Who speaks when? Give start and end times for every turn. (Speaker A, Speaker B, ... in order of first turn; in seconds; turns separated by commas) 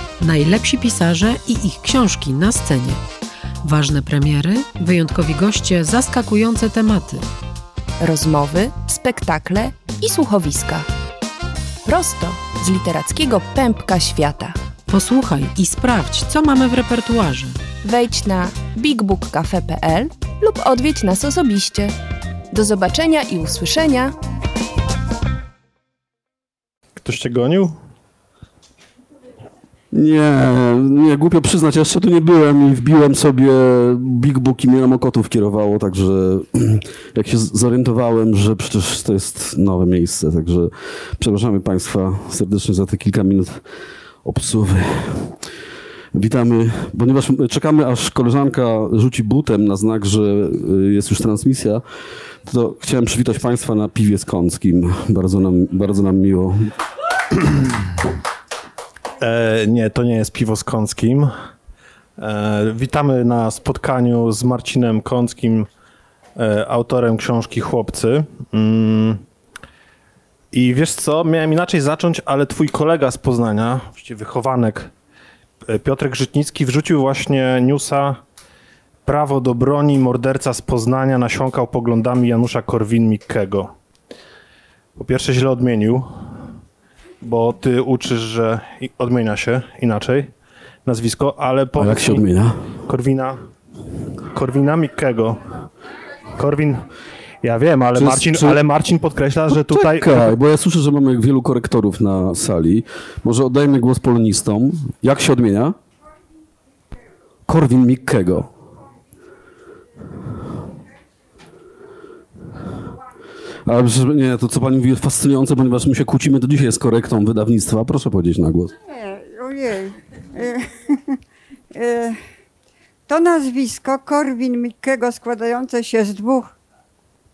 Speaker A: 0.2-3.0, Speaker A: 3.6-7.3, Speaker B: 8.0-10.9, Speaker B: 11.8-14.6, Speaker A: 14.9-17.6, Speaker B: 17.8-21.9, Speaker B: 22.5-24.1, Speaker C: 27.0-27.7, Speaker D: 29.9-43.6, Speaker D: 44.2-45.4, Speaker D: 46.1-51.8, Speaker D: 52.4-56.7, Speaker C: 59.2-61.3, Speaker C: 62.2-65.7, Speaker C: 66.4-69.2, Speaker C: 70.5-74.9, Speaker C: 75.7-78.2, Speaker C: 79.0-83.7, Speaker C: 85.0-86.1, Speaker C: 87.2-90.3, Speaker C: 90.8-92.2, Speaker D: 91.8-92.8, Speaker C: 92.8-93.4, Speaker C: 94.3-95.4, Speaker C: 96.4-96.8, Speaker C: 97.4-100.3, Speaker D: 97.9-98.6, Speaker D: 99.5-105.8, Speaker D: 107.5-108.5, Speaker D: 113.6-118.7, Speaker E: 118.9-121.1, Speaker E: 121.7-122.2, Speaker E: 123.1-126.5